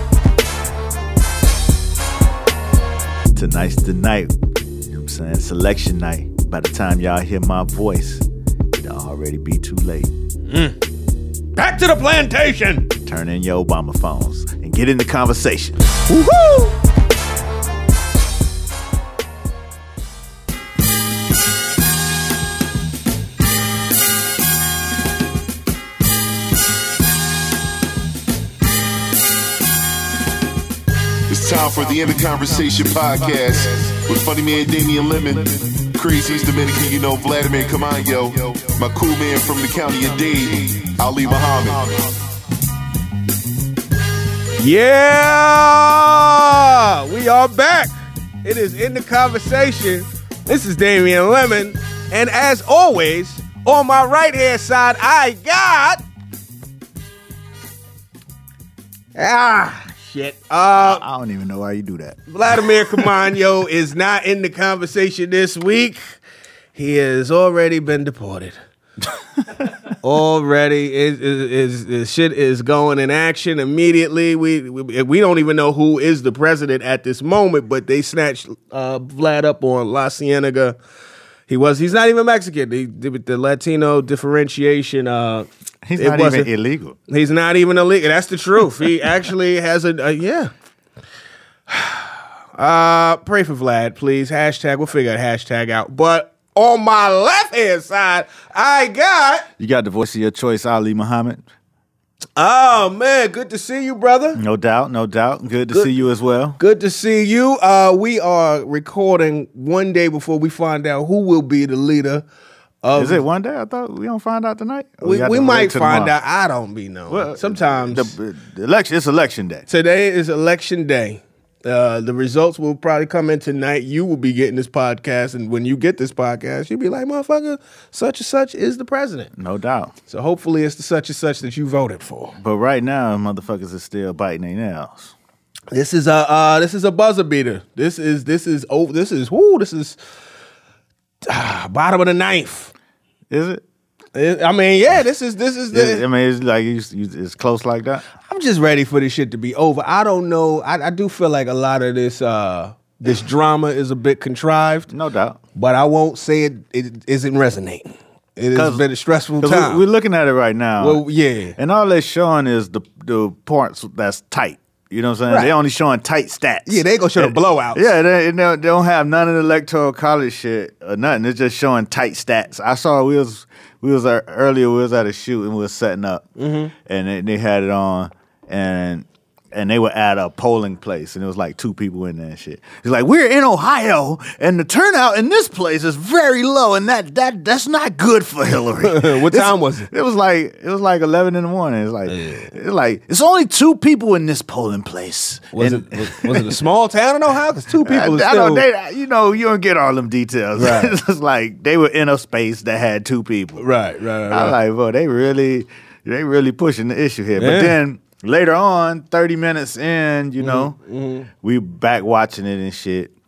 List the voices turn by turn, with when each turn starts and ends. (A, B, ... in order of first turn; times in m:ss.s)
0:03.4-0:04.3 A
0:04.9-0:08.2 A
0:08.8-0:10.1 A
0:10.5-0:10.8 B
0:11.6-0:12.9 B
0:13.0-0:15.9 A
0:16.1-0:16.7 B
0:31.3-0:42.1 C
0:44.6-0:56.0 B
0:59.2-1:01.0 B
1:00.8-1:03.1 A
1:02.3-1:06.0 B
1:06.7-1:08.6 B
1:09.6-1:09.9 A
1:10.0-1:20.8 B
1:21.5-1:26.5 B
1:25.8-1:27.0 A
1:27.1-1:30.5 B
1:31.7-1:39.5 B
1:39.6-1:41.4 A
1:42.4-1:44.4 B
1:44.4-1:46.6 A
1:46.6-1:52.2 B
1:52.8-1:53.2 B
1:53.0-1:56.2 A
1:55.0-1:58.1 B
1:57.1-1:59.7 A
1:59.7-2:09.3 B
2:09.4-2:09.9 A
2:10.1-2:12.4 B
2:12.4-2:15.2 A
2:15.7-2:20.0 B
2:21.2-2:22.7 B
2:23.3-2:23.6 A
2:24.2-2:26.0 B
2:25.7-2:28.0 A
2:28.2-2:34.9 B
2:34.9-2:35.4 A
2:35.6-2:39.8 B
2:38.5-2:38.8 A
2:39.4-2:41.0 A
2:40.8-2:41.6 B
2:41.6-2:56.3 A
2:45.3-2:45.5 B
2:46.7-2:47.9 B
2:56.4-2:56.7 B
2:56.8-3:16.6 A
3:08.8-3:09.9 B
3:12.1-3:12.5 B
3:15.5-3:18.6 B
3:17.8-3:23.6 A
3:20.6-3:21.0 B
3:23.6-3:24.6 B
3:24.3-3:30.8 A
3:27.4-3:27.8 B
3:30.4-3:31.3 B
3:31.4-3:33.1 A